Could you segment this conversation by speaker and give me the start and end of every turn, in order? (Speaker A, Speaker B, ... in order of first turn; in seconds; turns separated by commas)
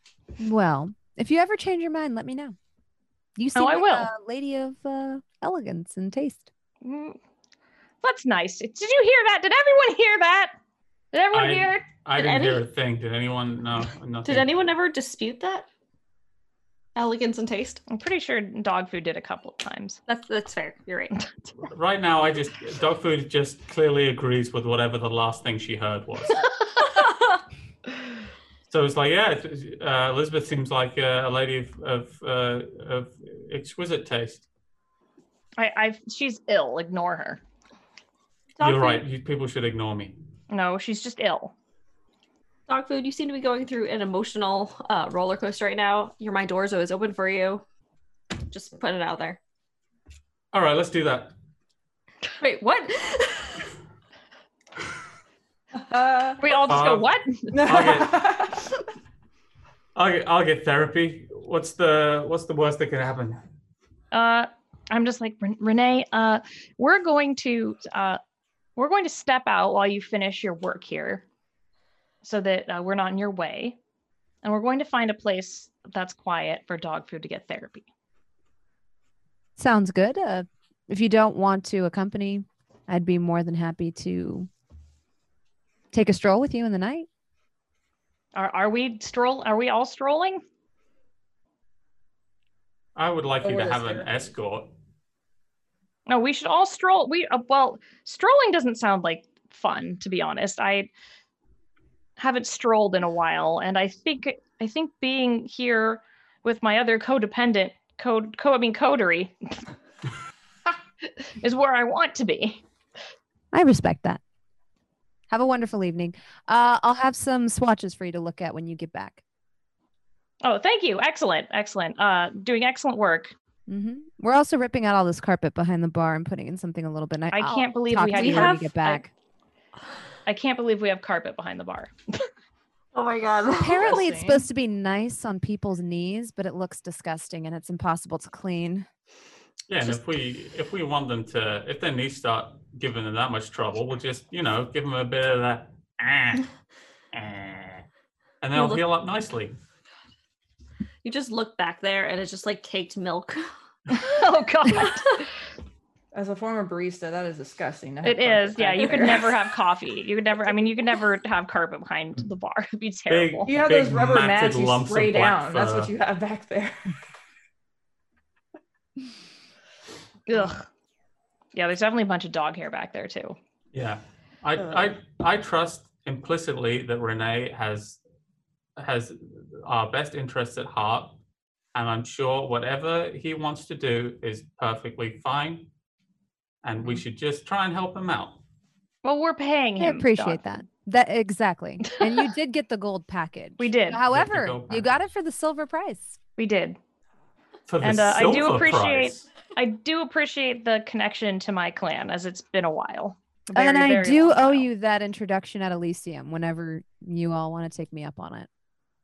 Speaker A: 0.4-2.6, Speaker A: 3.4-6.5, Speaker B: 3.5-4.1, Speaker B: 6.8-7.2, Speaker B: 8.0-10.5, Speaker B: 11.1-11.8, Speaker C: 11.3-14.5, Speaker D: 12.2-12.6, Speaker D: 14.2-15.7, Speaker D: 17.0-17.8, Speaker B: 17.9-20.0, Speaker D: 20.1-21.1, Speaker C: 21.7-26.4, Speaker D: 27.0-27.4, Speaker C: 28.7-34.5, Speaker B: 35.6-37.4, Speaker D: 38.6-39.0, Speaker C: 38.6-40.2, Speaker B: 40.5-41.5, Speaker D: 42.7-47.6, Speaker D: 48.4-49.4, Speaker C: 50.5-51.3, Speaker D: 52.4-53.6, Speaker E: 55.8-56.4, Speaker B: 56.4-57.8, Speaker C: 56.7-58.4, Speaker E: 57.5-58.7, Speaker C: 60.0-63.4, Speaker B: 64.1-68.2, Speaker B: 68.8-71.2, Speaker B: 72.2-73.8, Speaker B: 74.4-77.9, Speaker A: 79.6-84.5, Speaker A: 85.9-87.1, Speaker B: 88.3-90.4, Speaker C: 93.0-94.7, Speaker E: 93.4-94.2, Speaker B: 96.1-100.9, Speaker B: 102.2-109.6, Speaker B: 111.4-112.6, Speaker A: 113.5-114.2, Speaker A: 115.3-119.2, Speaker B: 120.4-123.3, Speaker A: 123.7-129.1, Speaker B: 127.3-129.0, Speaker D: 128.1-128.8, Speaker B: 130.3-131.9, Speaker D: 132.9-134.0, Speaker A: 133.6-138.9, Speaker E: 133.8-134.4, Speaker C: 139.7-146.5, Speaker C: 147.1-147.8, Speaker C: 148.4-149.6, Speaker D: 148.5-148.8, Speaker D: 151.0-153.4, Speaker B: 153.9-155.3, Speaker E: 156.1-159.3, Speaker B: 158.0-163.5, Speaker C: 163.1-165.9, Speaker E: 163.5-166.8, Speaker B: 170.3-170.6, Speaker B: 171.5-173.4, Speaker C: 173.7-178.0, Speaker C: 178.8-181.2, Speaker C: 181.8-185.7, Speaker C: 186.6-188.4, Speaker B: 189.0-190.4, Speaker A: 189.8-196.2, Speaker B: 193.6-194.0, Speaker C: 194.1-194.9, Speaker B: 196.4-196.8, Speaker C: 197.7-199.3, Speaker B: 197.8-204.7, Speaker A: 203.5-208.5